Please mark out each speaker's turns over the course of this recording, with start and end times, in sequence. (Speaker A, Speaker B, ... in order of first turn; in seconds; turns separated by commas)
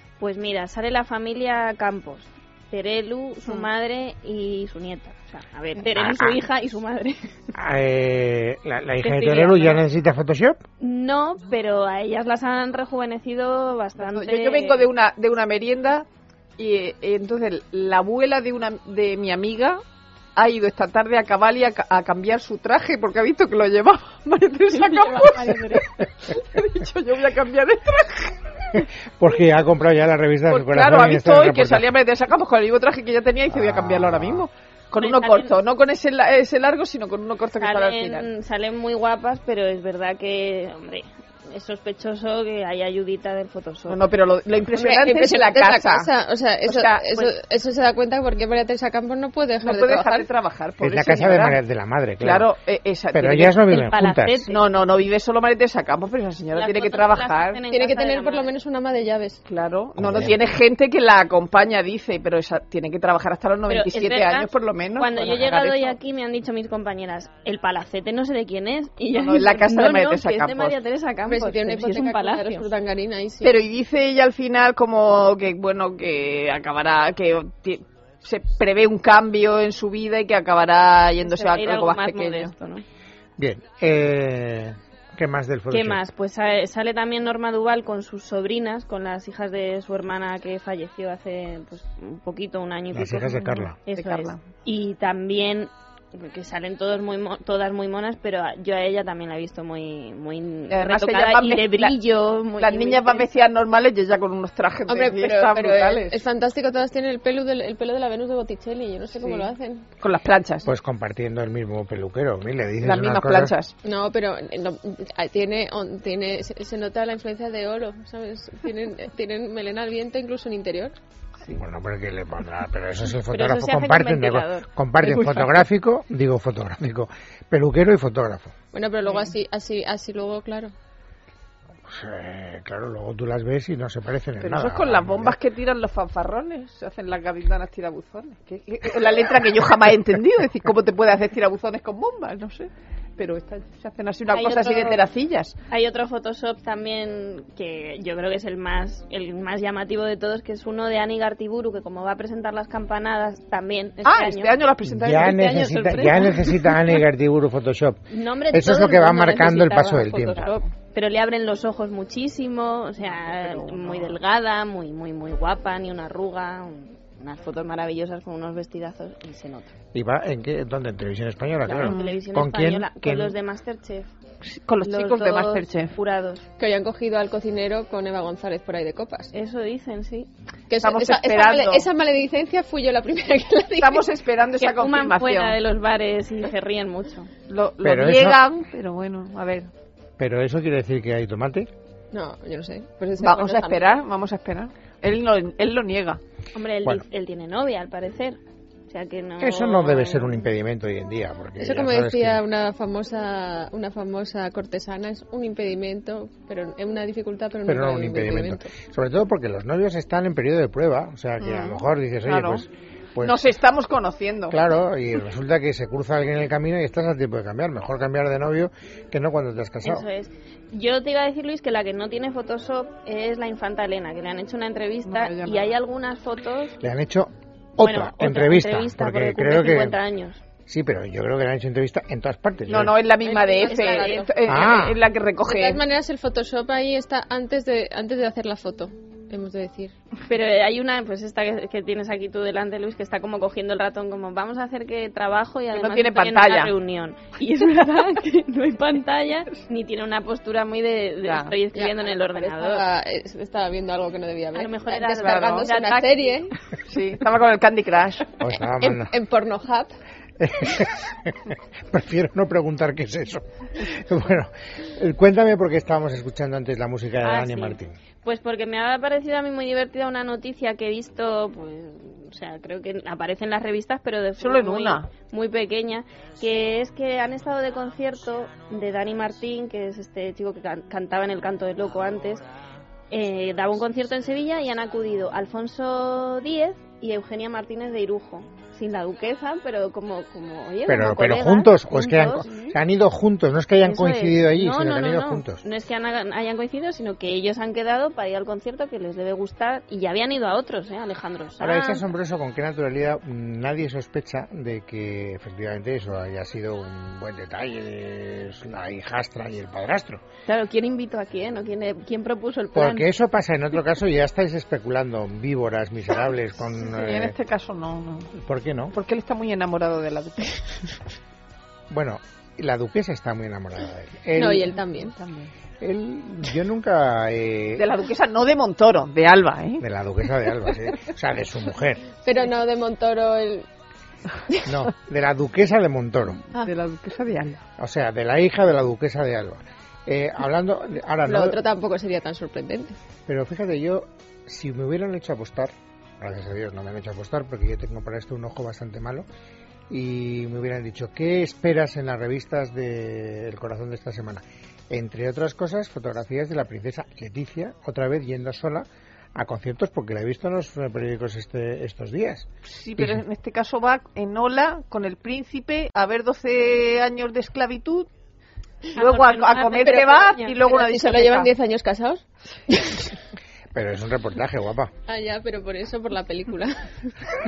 Speaker A: 0.2-7.3, Speaker B: 5.9-6.4, Speaker B: 7.5-10.6, Speaker A: 9.0-9.8, Speaker A: 10.8-14.9, Speaker C: 14.0-16.1, Speaker C: 16.6-19.8, Speaker C: 20.4-28.5, Speaker A: 24.7-25.8, Speaker B: 28.7-31.8, Speaker C: 30.5-38.2, Speaker B: 33.5-34.5, Speaker A: 35.0-35.5, Speaker A: 37.6-44.0, Speaker C: 43.9-46.1, Speaker D: 44.7-50.3, Speaker C: 46.6-47.0, Speaker C: 49.6-51.6, Speaker B: 50.8-52.5, Speaker C: 52.2-53.5, Speaker B: 53.1-54.5, Speaker A: 53.7-54.6, Speaker C: 54.5-57.6, Speaker A: 56.5-58.5, Speaker D: 57.7-59.4, Speaker C: 59.5-66.0, Speaker B: 60.0-60.4, Speaker A: 63.7-72.7, Speaker C: 69.1-70.8, Speaker D: 71.2-73.6, Speaker C: 73.4-82.5, Speaker A: 81.3-82.8, Speaker B: 83.4-86.0, Speaker A: 85.7-103.3, Speaker B: 92.9-93.8, Speaker C: 93.9-94.4, Speaker C: 100.7-102.0, Speaker C: 102.6-106.2, Speaker D: 104.9-109.9, Speaker C: 109.2-110.7, Speaker B: 110.7-113.5, Speaker C: 112.8-113.7, Speaker D: 113.8-120.9, Speaker B: 121.5-128.5, Speaker A: 123.3-124.7, Speaker D: 128.7-130.7, Speaker B: 131.9-135.3, Speaker C: 134.4-145.5, Speaker A: 144.3-145.0, Speaker A: 145.7-154.6, Speaker C: 154.0-155.4, Speaker B: 154.8-160.6, Speaker A: 155.2-157.0, Speaker A: 158.1-169.7, Speaker C: 163.0-164.2, Speaker B: 169.9-173.3, Speaker A: 171.6-174.1, Speaker C: 171.8-172.2, Speaker C: 174.4-175.9, Speaker A: 174.8-176.4, Speaker D: 176.6-179.3, Speaker A: 179.3-180.3, Speaker D: 180.7-184.1, Speaker C: 180.8-181.9, Speaker C: 183.8-185.6, Speaker A: 184.6-187.3, Speaker C: 187.5-189.7, Speaker B: 187.8-188.4, Speaker B: 190.2-191.7, Speaker D: 192.1-194.0, Speaker C: 193.2-196.2, Speaker A: 196.5-200.5, Speaker B: 199.4-202.4, Speaker D: 201.6-208.7, Speaker B: 207.7-213.5, Speaker C: 211.4-212.6, Speaker C: 213.2-214.6, Speaker B: 214.5-220.1, Speaker A: 219.8-226.8, Speaker C: 225.1-225.7, Speaker B: 226.8-230.0, Speaker A: 227.8-230.4, Speaker B: 230.7-232.9, Speaker C: 232.7-235.8, Speaker D: 233.2-234.7, Speaker A: 233.6-234.3, Speaker B: 234.5-235.0, Speaker D: 235.5-239.9, Speaker A: 240.2-252.8, Speaker C: 245.7-246.7, Speaker C: 251.2-251.5, Speaker D: 251.7-256.5, Speaker A: 254.5-256.3, Speaker C: 255.1-256.0, Speaker C: 256.8-258.4, Speaker B: 258.4-259.1, Speaker D: 258.6-259.9, Speaker B: 260.4-268.0, Speaker A: 267.2-282.4, Speaker C: 274.4-275.1, Speaker A: 283.1-292.7, Speaker B: 290.9-295.6, Speaker A: 293.8-302.0, Speaker B: 301.6-310.2, Speaker A: 310.4-313.1, Speaker B: 312.7-317.4, Speaker C: 316.9-318.3, Speaker B: 318.3-318.9, Speaker C: 318.9-320.6, Speaker B: 321.9-324.8, Speaker D: 324.3-325.1, Speaker C: 324.9-325.5, Speaker B: 325.8-327.9, Speaker C: 327.8-329.8, Speaker B: 329.8-332.1, Speaker D: 332.1-333.6, Speaker B: 334.6-336.4, Speaker C: 336.5-337.6, Speaker B: 337.8-341.6, Speaker D: 341.2-343.0, Speaker B: 343.3-349.2, Speaker B: 349.9-362.5, Speaker C: 362.6-368.1, Speaker A: 368.9-370.6, Speaker C: 369.0-371.5, Speaker D: 369.8-373.1, Speaker B: 373.7-374.9, Speaker D: 375.1-376.9